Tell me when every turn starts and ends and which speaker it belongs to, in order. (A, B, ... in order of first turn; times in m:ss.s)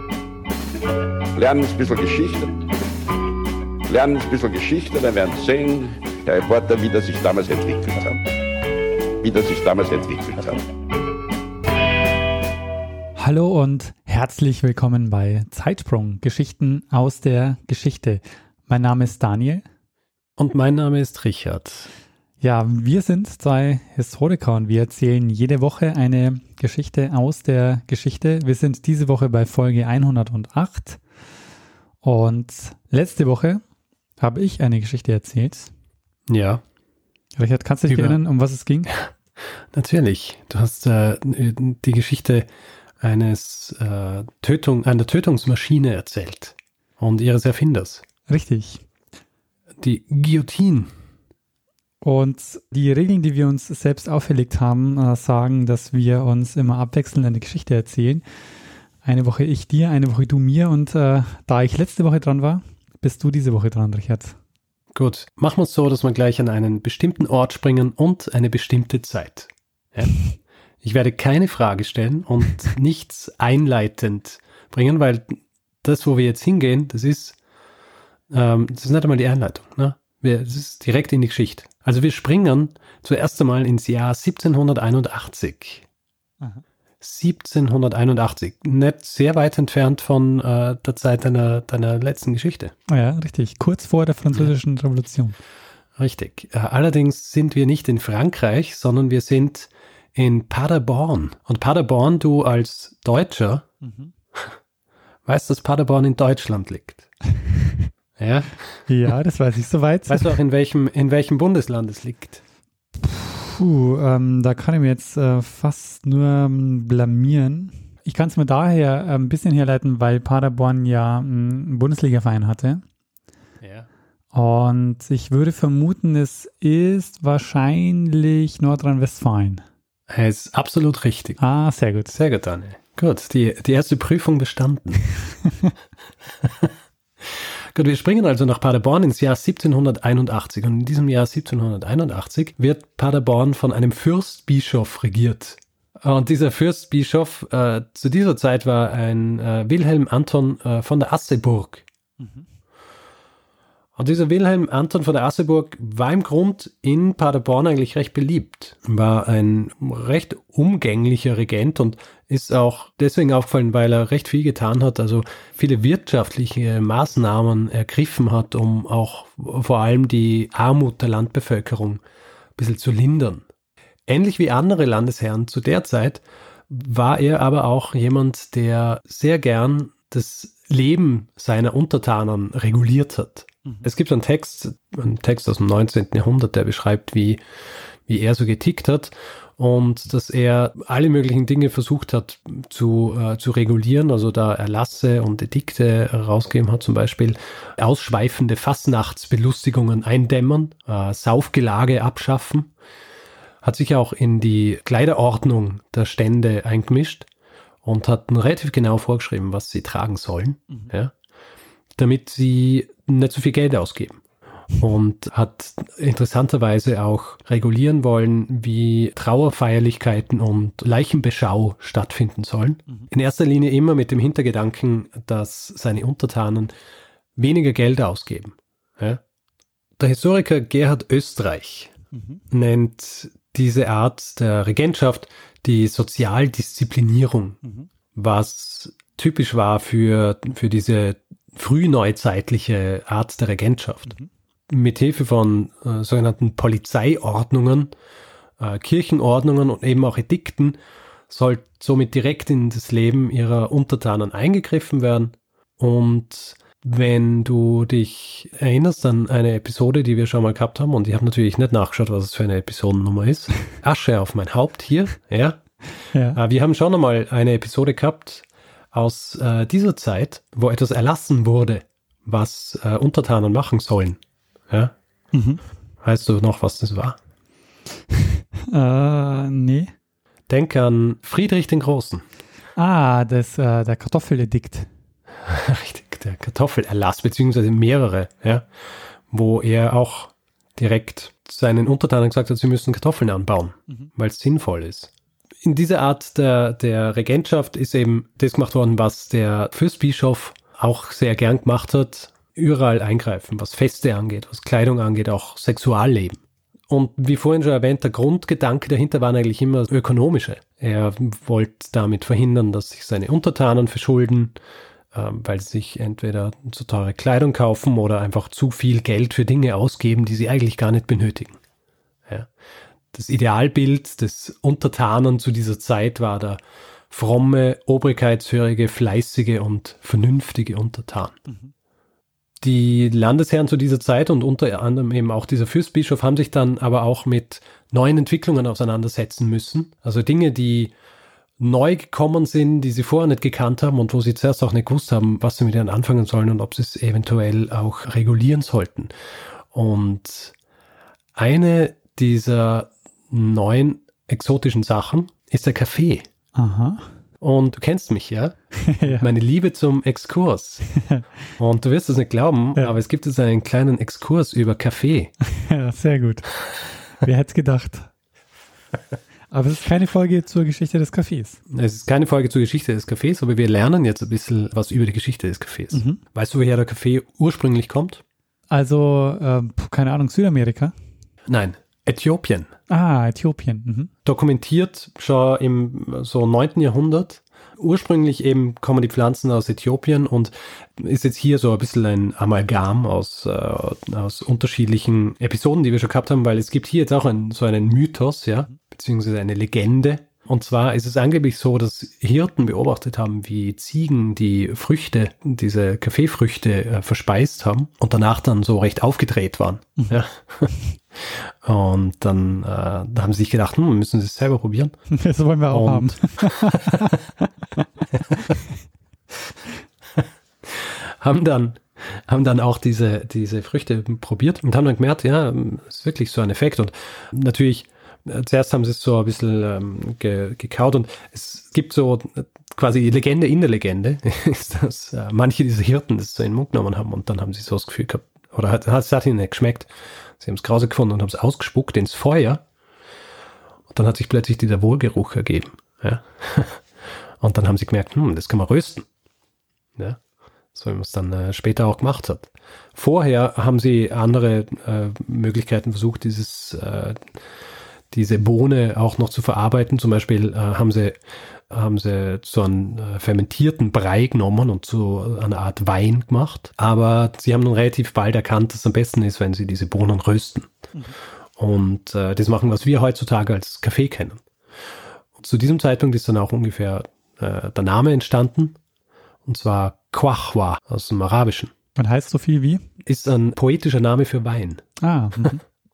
0:01.4-0:02.6 A
0:03.9-0:08.2 A
0:09.2-0:10.6 A
0:13.2-0:19.6 B
0:20.4-0:21.9 C
0:22.4-0:31.0 B
0:32.0-0:33.6 B
0:34.2-0:35.7 B
0:36.3-0:36.6 C
0:37.4-0:39.0 B
0:37.9-0:38.2 C
0:39.7-0:42.5 C
0:43.0-0:48.0 C
0:48.3-0:48.8 B
0:49.8-0:50.9 C
0:52.0-0:58.2 B
0:59.0-1:04.4 B
1:04.9-1:10.2 C
1:10.8-1:17.4 C
1:18.3-1:25.8 C
1:27.0-1:32.7 C
1:32.9-1:35.4 B
1:36.0-1:43.7 C
1:43.8-1:44.1 B
1:45.2-1:47.1 C
1:47.4-1:47.9 B
1:48.2-1:48.9 C
1:48.9-1:50.4 B
1:50.1-1:52.4 C
1:53.0-2:02.8 B
2:03.6-2:03.9 C
2:04.3-2:09.6 B
2:10.1-2:11.4 C
2:11.4-2:12.1 B
2:12.1-2:15.1 C
2:16.4-2:16.7 C
2:17.2-2:31.8 C
2:32.2-2:32.5 B
2:34.0-2:52.0 C
2:52.6-2:53.4 C
2:54.1-3:07.4 C
3:08.1-3:22.7 C
3:23.6-3:27.3 C
3:27.8-3:31.1 C
3:32.0-3:34.2 C
3:34.7-3:46.7 C
3:47.4-3:49.2 C
3:50.0-3:51.9 C
3:52.1-3:52.4 B
3:52.5-3:57.6 C
3:57.6-3:57.9 B
3:58.1-4:04.1 C
4:04.7-4:07.9 C
4:08.6-4:10.8 C
4:11.3-4:25.8 C
4:26.1-4:26.4 B
4:26.3-4:34.2 C
4:35.3-4:35.6 B
4:36.0-4:37.2 C
4:38.2-4:39.9 B
4:40.5-4:42.2 C
4:42.8-4:44.9 B
4:45.4-4:48.6 C
4:49.3-4:55.1 C
4:55.6-5:14.5 C
5:15.1-5:21.6 C
5:23.1-5:31.4 C
5:31.5-5:31.7 B
5:32.6-5:40.9 C
5:41.6-5:49.1 C
5:49.7-5:50.5 C
5:51.4-5:56.2 C
5:56.5-5:57.1 B
5:57.4-6:00.9 C
5:58.8-5:59.3 B
6:00.9-6:01.3 B
6:01.6-6:05.3 C
6:05.4-6:08.1 B
6:09.5-6:11.6 B
6:11.7-6:18.2 C
6:15.9-6:16.2 B
6:18.7-6:20.9 B
6:21.5-6:22.7 C
6:22.9-6:24.1 B
6:24.2-6:55.0 C
6:55.1-6:58.8 B
6:55.7-6:57.2 C
7:00.2-7:22.6 C
7:23.9-7:26.8 C
7:27.4-7:29.1 C
7:30.7-7:37.2 C
7:38.1-7:41.2 C
7:41.7-7:50.9 C
7:51.6-7:54.4 C
7:55.4-7:58.8 C
7:59.5-8:01.7 C
8:02.0-8:02.8 B
8:03.0-8:04.8 C
8:05.0-8:05.6 B